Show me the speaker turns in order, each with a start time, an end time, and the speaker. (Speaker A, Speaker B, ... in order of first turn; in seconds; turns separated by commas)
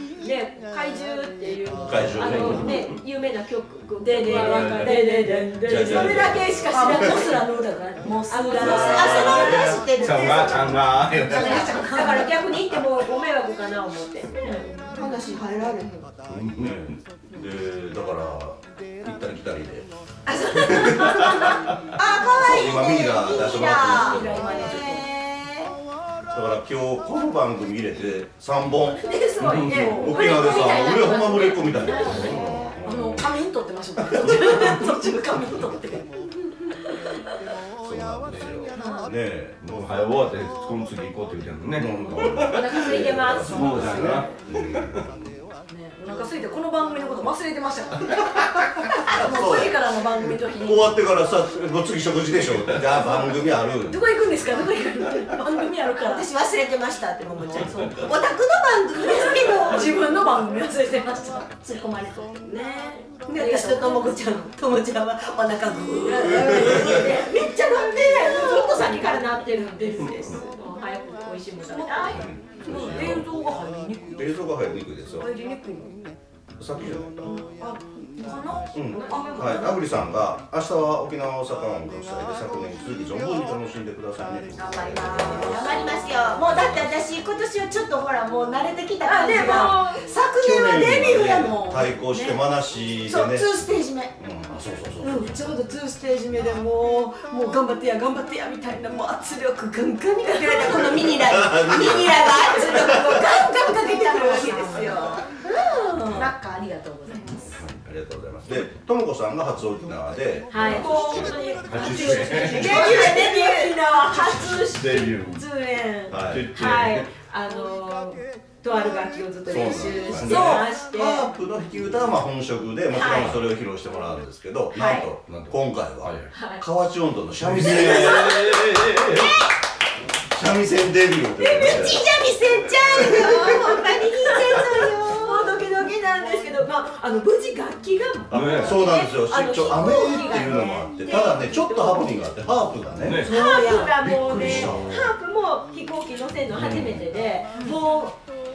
Speaker A: 0.2-7.5, Speaker B: 1.9-2.8, Speaker C: 1.9-2.9, Speaker D: 4.0-9.8, Speaker C: 4.2-5.0, Speaker B: 5.6-7.1, Speaker C: 5.7-6.5, Speaker A: 8.3-10.6, Speaker E: 8.6-10.8, Speaker B: 9.2-9.8, Speaker C: 9.6-11.9, Speaker D: 11.2-12.3, Speaker A: 11.4-15.1, Speaker E: 14.9-16.1, Speaker C: 16.3-17.0, Speaker B: 16.6-19.9, Speaker A: 20.3-21.4, Speaker B: 20.5-21.4, Speaker E: 22.0-25.8, Speaker B: 22.4-24.8, Speaker D: 23.8-25.1, Speaker B: 26.3-33.3, Speaker A: 28.9-32.3, Speaker C: 29.4-29.9, Speaker D: 29.6-32.2, Speaker C: 32.1-32.4, Speaker E: 32.1-32.8, Speaker D: 32.8-36.1, Speaker B: 37.8-39.9, Speaker C: 38.3-38.6, Speaker D: 38.8-39.1, Speaker A: 38.8-39.1, Speaker C: 39.6-45.0, Speaker B: 41.8-45.3, Speaker A: 42.4-44.4, Speaker D: 45.7-51.0, Speaker B: 49.1-49.8, Speaker B: 50.6-54.0, Speaker D: 53.9-56.3, Speaker E: 56.0-59.9, Speaker D: 57.6-58.0, Speaker D: 59.0-62.2, Speaker A: 62.3-63.1, Speaker E: 63.3-69.2, Speaker D: 63.4-64.0, Speaker D: 66.0-67.1, Speaker A: 66.4-72.9, Speaker C: 70.0-70.3, Speaker D: 71.6-74.3, Speaker B: 72.1-73.3, Speaker B: 74.1-75.3, Speaker D: 75.2-75.9, Speaker B: 76.6-77.3, Speaker D: 77.2-79.8, Speaker B: 78.7-85.7, Speaker A: 78.9-79.8, Speaker D: 84.6-86.4, Speaker E: 85.2-91.9, Speaker B: 86.6-86.9, Speaker D: 89.0-89.9, Speaker A: 89.1-90.0, Speaker B: 90.4-93.5, Speaker E: 93.1-94.1, Speaker B: 94.2-95.4, Speaker E: 95.0-106.2, Speaker B: 100.5-103.2, Speaker D: 103.2-105.0, Speaker A: 104.0-104.9, Speaker D: 105.9-107.6, Speaker B: 107.5-112.4, Speaker A: 110.5-121.3, Speaker D: 110.6-112.8, Speaker C: 111.7-112.8, Speaker E: 112.6-113.8, Speaker C: 114.3-115.5, Speaker B: 116.1-116.5, Speaker C: 116.1-117.1, Speaker B: 119.5-128.5, Speaker C: 120.1-120.4, Speaker D: 120.2-120.7, Speaker A: 122.9-123.4, Speaker A: 124.8-125.1, Speaker C: 125.2-126.3, Speaker A: 126.3-126.6, Speaker C: 127.4-129.3, Speaker B: 130.3-132.0, Speaker A: 131.4-132.0, Speaker E: 131.6-135.5, Speaker A: 133.3-142.2, Speaker C: 138.3-138.8, Speaker B: 138.3-143.3, Speaker C: 143.0-143.4, Speaker E: 143.2-144.0, Speaker A: 143.2-148.2, Speaker C: 144.0-145.1, Speaker B: 144.3-144.9, Speaker C: 146.6-147.0